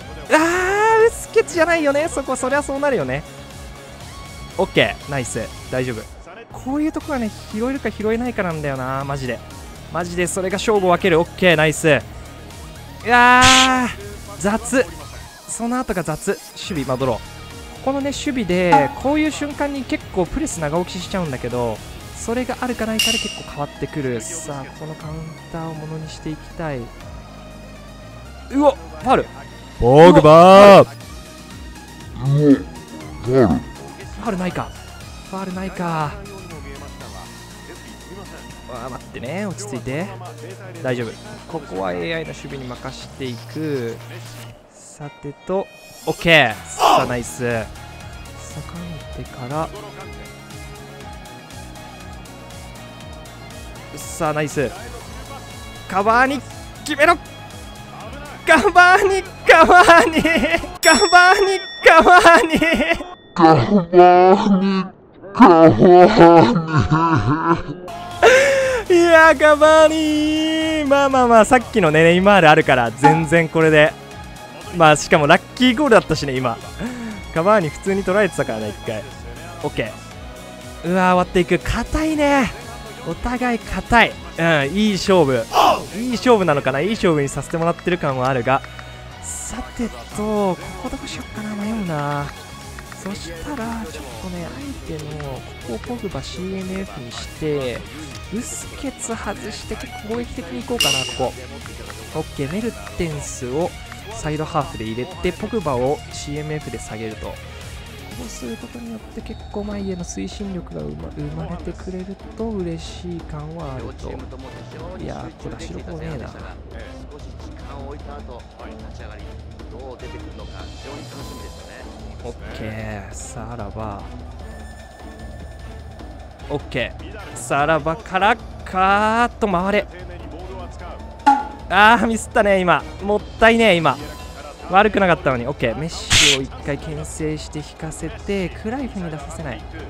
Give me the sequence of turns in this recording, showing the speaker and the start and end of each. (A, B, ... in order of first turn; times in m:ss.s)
0:00.3-0:03.3 A
0:04.6-0:12.1 A
0:13.0-0:14.9 A
0:15.5-0:17.2 A
0:17.8-0:26.9 A
0:28.5-0:29.3 A
0:29.8-0:30.9 B
0:30.0-0:30.9 A
0:32.2-0:32.6 B
0:33.2-0:33.6 B
0:34.2-0:34.7 A
0:35.3-0:36.2 A
0:38.7-0:40.2 A
0:40.8-0:44.0 A
0:44.7-0:47.7 A
0:48.4-0:49.8 A
0:53.9-0:54.8 A
0:55.9-0:57.2 A
0:58.4-1:03.1 A
1:03.4-1:07.6 B
1:08.2-1:14.0 A
1:14.7-1:19.1 A
1:19.6-1:20.0 A
1:20.8-1:28.7 A
1:29.2-1:32.3 A
1:32.9-1:41.4 A
1:42.1-1:47.4 A
1:48.0-1:54.2 A
1:54.9-1:56.6 A
1:57.4-1:59.2 C
1:59.8-2:01.7 C
2:02.2-2:04.1 A
2:06.5-2:09.9 A
2:11.7-2:14.0 A
2:14.7-2:19.6 A